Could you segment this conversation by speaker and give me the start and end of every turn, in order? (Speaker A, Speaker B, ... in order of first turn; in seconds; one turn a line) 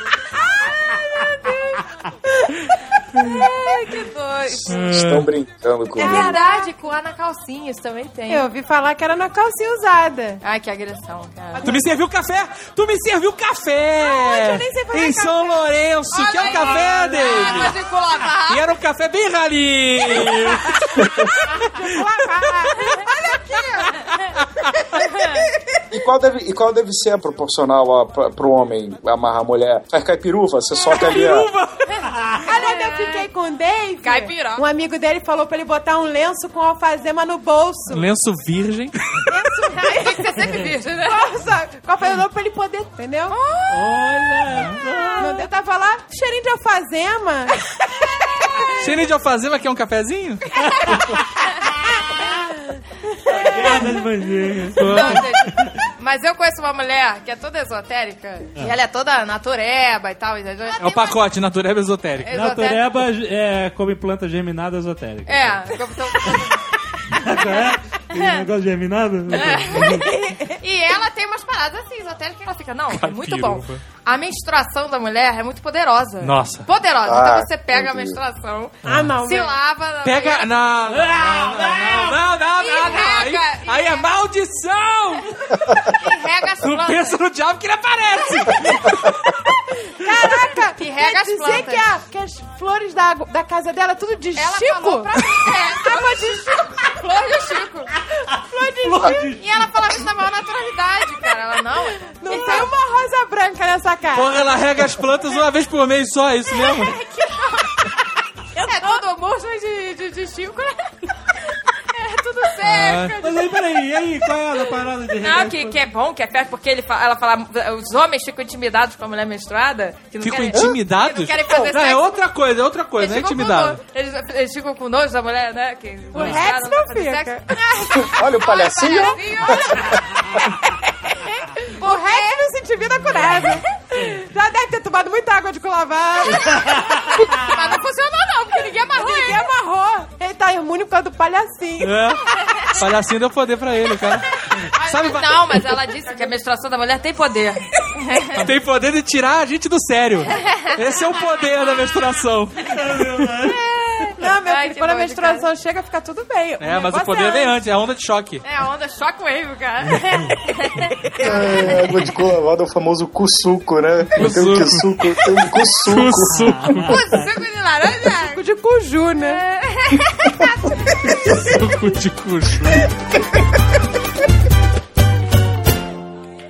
Speaker A: 0.3-2.6
Speaker B: 3.2-4.8
Speaker C: 4.7-5.3
Speaker D: 4.7-6.4
Speaker A: 6.0-6.7
Speaker B: 6.0-8.5
Speaker A: 8.3-10.4
Speaker B: 10.4-11.7
Speaker A: 11.5-11.9
Speaker C: 11.6-17.8
Speaker A: 14.0-15.6
Speaker B: 16.1-18.6
Speaker A: 16.4-17.8
Speaker C: 18.4-21.0
Speaker A: 21.5-24.0
Speaker B: 25.0-25.4
Speaker D: 25.9-31.5
Speaker C: 30.9-31.9
Speaker B: 31.9-33.2
Speaker A: 32.4-38.0
Speaker B: 34.0-34.6
Speaker C: 37.9-39.2
Speaker A: 39.2-43.4
Speaker B: 39.7-41.3
Speaker B: 43.3-44.3
Speaker E: 43.7-45.3
Speaker C: 44.5-44.8
Speaker B: 44.9-45.3
Speaker A: 45.2-47.6
Speaker C: 48.8-50.5
Speaker E: 50.6-51.2
Speaker E: 53.3-55.7
Speaker B: 54.8-61.2
Speaker C: 54.8-55.2
Speaker C: 60.8-62.3
Speaker B: 62.2-62.8
Speaker E: 62.3-65.7
Speaker B: 65.3-66.7
Speaker E: 67.1-70.0
Speaker B: 68.1-68.4
Speaker B: 69.3-80.5
Speaker A: 69.8-70.6
Speaker C: 72.9-73.8
Speaker C: 76.2-76.7
Speaker D: 77.0-78.2
Speaker E: 78.8-79.1
Speaker A: 78.8-79.5
Speaker C: 80.0-85.3
Speaker E: 80.9-82.2
Speaker B: 82.5-84.1
Speaker B: 85.9-87.2
Speaker C: 86.6-89.1
Speaker A: 89.9-97.6
Speaker B: 90.7-91.8
Speaker B: 94.3-97.9
Speaker E: 98.3-99.5
Speaker A: 98.3-99.4
Speaker B: 99.4-102.7
Speaker A: 102.0-104.5
Speaker C: 104.1-106.9
Speaker B: 106.7-107.8
Speaker B: 108.5-113.7
Speaker A: 108.6-109.0
Speaker C: 112.6-113.2
Speaker E: 113.2-115.8
Speaker B: 115.2-122.2
Speaker C: 120.2-123.8
Speaker B: 123.0-130.0
Speaker A: 126.1-127.6
Speaker D: 127.9-130.4
Speaker A: 128.8-129.2
Speaker A: 131.2-137.0
Speaker B: 131.8-132.4
Speaker B: 137.2-139.4
Speaker A: 138.9-142.1
Speaker C: 141.8-145.7
Speaker B: 142.4-142.7
Speaker B: 144.7-148.5
Speaker C: 148.3-153.1
Speaker B: 150.3-150.8
Speaker E: 152.7-153.6
Speaker B: 153.6-155.4
Speaker A: 154.1-157.6
Speaker C: 156.6-158.4
Speaker B: 158.4-160.9
Speaker D: 161.2-166.9
Speaker C: 164.2-165.2
Speaker C: 165.8-167.0
Speaker E: 166.4-167.0
Speaker B: 166.9-168.4
Speaker A: 168.3-169.4
Speaker B: 169.2-170.4
Speaker C: 171.2-172.9